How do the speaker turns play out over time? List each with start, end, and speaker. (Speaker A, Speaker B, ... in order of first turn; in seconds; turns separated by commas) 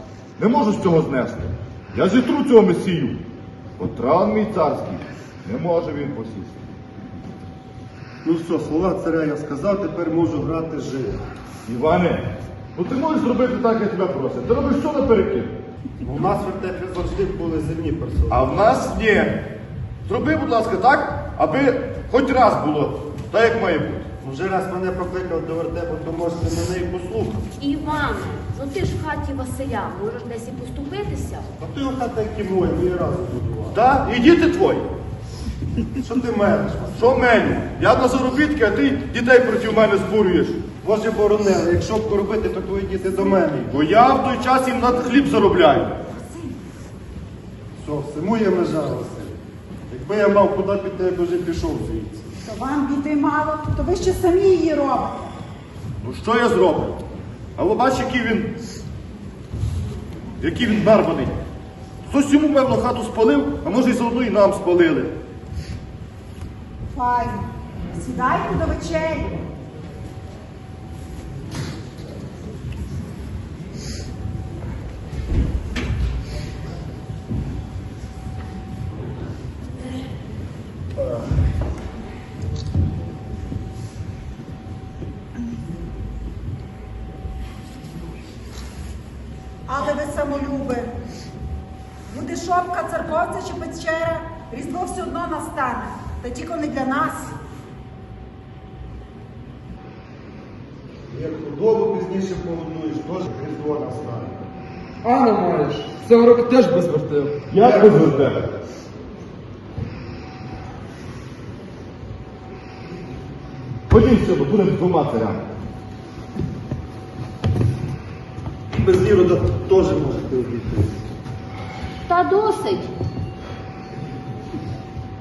Speaker A: 0.4-3.2, Speaker A: 3.8-6.5, Speaker B: 8.2-11.2, Speaker A: 11.6-15.5, Speaker B: 16.0-18.5, Speaker A: 18.3-19.5, Speaker A: 20.1-24.1, Speaker B: 24.2-27.4, Speaker C: 27.6-31.5, Speaker B: 31.6-33.8, Speaker A: 33.7-34.9, Speaker B: 36.0-37.2, Speaker A: 36.9-40.6, Speaker B: 40.8-43.8, Speaker A: 43.7-46.0, Speaker B: 47.8-49.4, Speaker B: 49.9-52.3, Speaker D: 52.4-55.2, Speaker A: 56.0-57.0, Speaker A: 57.5-58.5, Speaker A: 60.4-61.4, Speaker A: 62.1-65.1, Speaker D: 66.9-69.4, Speaker A: 81.0-81.2, Speaker D: 89.7-90.9, Speaker D: 92.1-97.3, Speaker B: 101.1-104.5, Speaker E: 105.0-107.4, Speaker A: 107.5-108.5, Speaker B: 107.6-108.3, Speaker A: 113.9-115.4, Speaker B: 118.7-121.0, Speaker C: 122.1-122.9